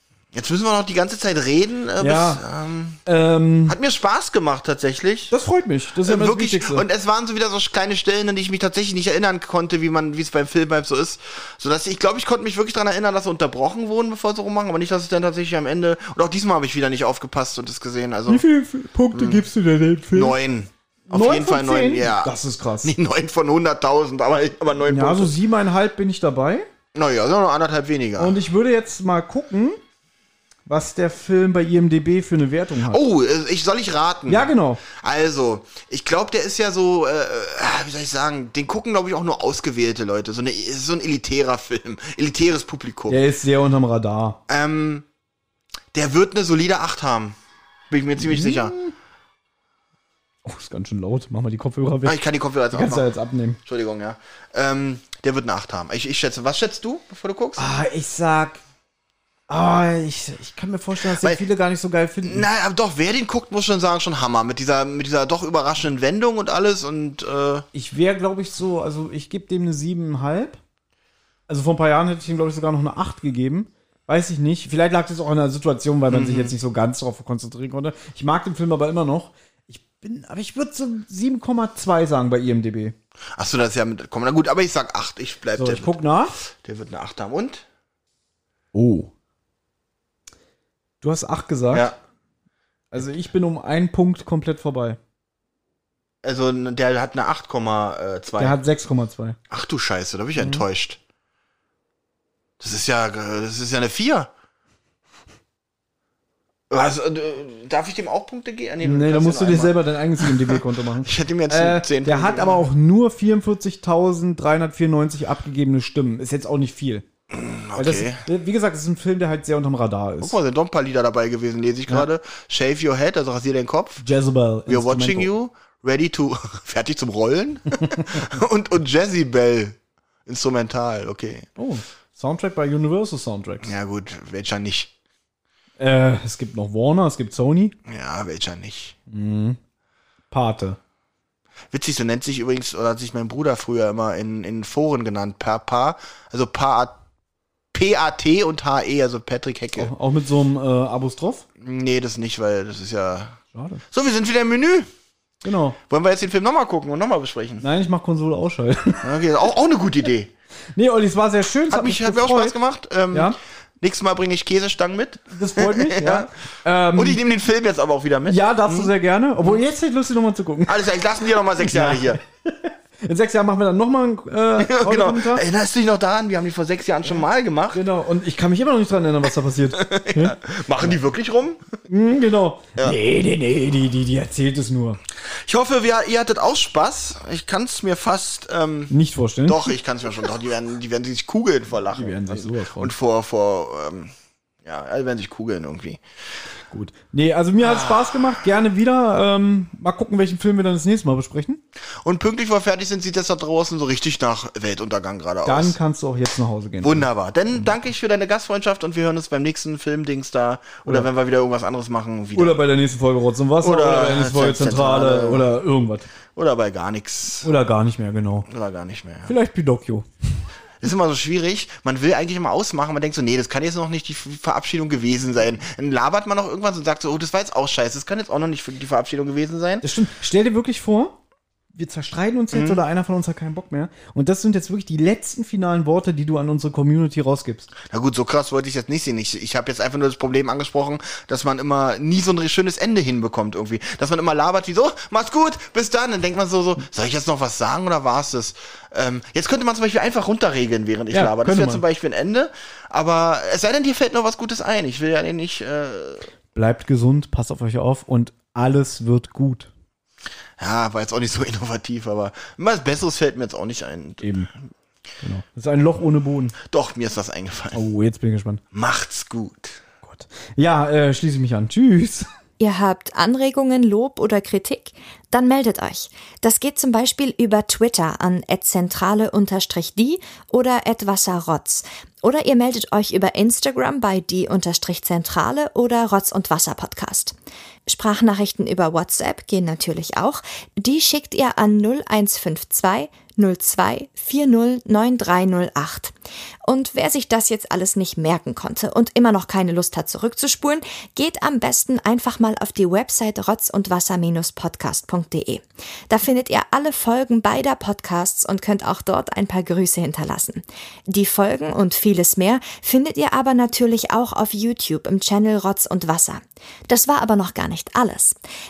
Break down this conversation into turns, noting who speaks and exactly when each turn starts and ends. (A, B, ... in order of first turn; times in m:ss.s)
0:00.3-0:03.0 A
0:02.0-0:02.4 B
0:03.0-0:03.8 B
0:03.7-0:05.3 A
0:05.3-0:06.8 B
0:06.0-0:18.4 A
0:18.3-0:20.4 B
0:19.1-0:19.5 A
0:20.1-0:25.3 A
0:21.1-0:23.0 B
0:24.8-0:26.7 B
0:26.9-0:28.4 A
0:28.2-0:29.8 B
0:30.7-0:33.0 B
0:32.9-0:43.2 A
0:34.3-0:34.8 B
0:43.1-0:44.4 B
0:44.5-0:45.0 A
0:45.9-0:47.4 A
0:47.9-0:48.7 A
0:48.2-0:48.9 B
0:50.4-0:52.2 B
0:52.0-0:53.1 A
0:52.7-0:53.6 B
0:53.6-0:57.7 A
0:57.6-0:58.6 B
0:59.5-1:02.5 B
1:01.0-1:01.4 A
1:02.2-1:07.6 A
1:07.7-1:10.6 B
1:11.5-1:23.0 B
1:16.1-1:16.6 A
1:23.4-1:26.0 A
1:25.6-1:26.4 B
1:26.6-1:27.6 A
1:28.7-1:29.1 B
1:31.0-1:31.9 B
1:32.9-1:35.0 B
1:36.2-1:38.6 A
1:38.4-1:39.4 B
1:39.5-1:41.0 A
1:40.4-1:40.6 B
1:42.6-1:44.3 A
1:46.7-1:52.7 A
1:48.8-1:57.1 B
1:57.3-1:58.2 A
1:57.8-2:00.4 B
2:00.2-2:04.0 A
2:04.0-2:05.3 B
2:04.7-2:11.5 A
2:07.8-2:08.2 B
2:11.6-2:13.7 B
2:13.6-2:14.9 A
2:15.8-2:17.8 B
2:17.9-2:19.0 A
2:19.1-2:19.6 B
2:20.3-2:20.8 B
2:21.7-2:27.0 A
2:27.7-2:29.9 A
2:29.8-2:31.4 B
2:31.6-2:33.4 A
2:33.5-2:33.8 B
2:33.9-2:34.9 A
2:35.4-2:35.8 B
2:35.9-2:37.6 A
2:37.6-2:39.0 B
2:39.0-2:40.3 A
2:40.8-2:42.6 B
2:41.7-2:46.3 A
2:45.3-2:47.2 B
2:46.9-2:48.9 A
2:48.3-2:50.9 B
2:50.7-2:52.2 A
2:51.6-2:55.4 B
2:54.6-2:57.8 A
2:57.7-3:00.4 B
2:59.7-3:01.6 A
3:01.9-3:05.0 B
3:05.2-3:08.9 A
3:08.9-3:09.7 B
3:09.5-3:14.1 A
3:11.9-3:12.9 B
3:14.6-3:16.0 A
3:16.7-3:21.6 B
3:22.0-3:25.8 A
3:25.4-3:27.1 B
3:26.8-3:32.6 A
3:32.4-3:36.1 B
3:33.6-3:35.5 A
3:36.4-3:37.5 A
3:37.4-3:38.5 B
3:38.5-3:39.3 A
3:39.2-3:40.1 B
3:40.8-3:49.8 A
3:49.8-3:51.2 B
3:51.8-3:57.7 B
3:52.5-3:52.8 A
3:57.9-4:16.3 A
4:11.1-4:11.8 B
4:16.5-4:19.7 B
4:20.6-4:24.3 A
4:24.2-4:24.5 B
4:25.2-4:26.6 B
4:26.6-4:27.8 A
4:27.7-4:28.6 B
4:28.7-4:29.8 A
4:30.0-4:32.3 B
4:32.6-4:47.4 C
4:47.9-4:56.2 C
4:56.7-5:18.4 C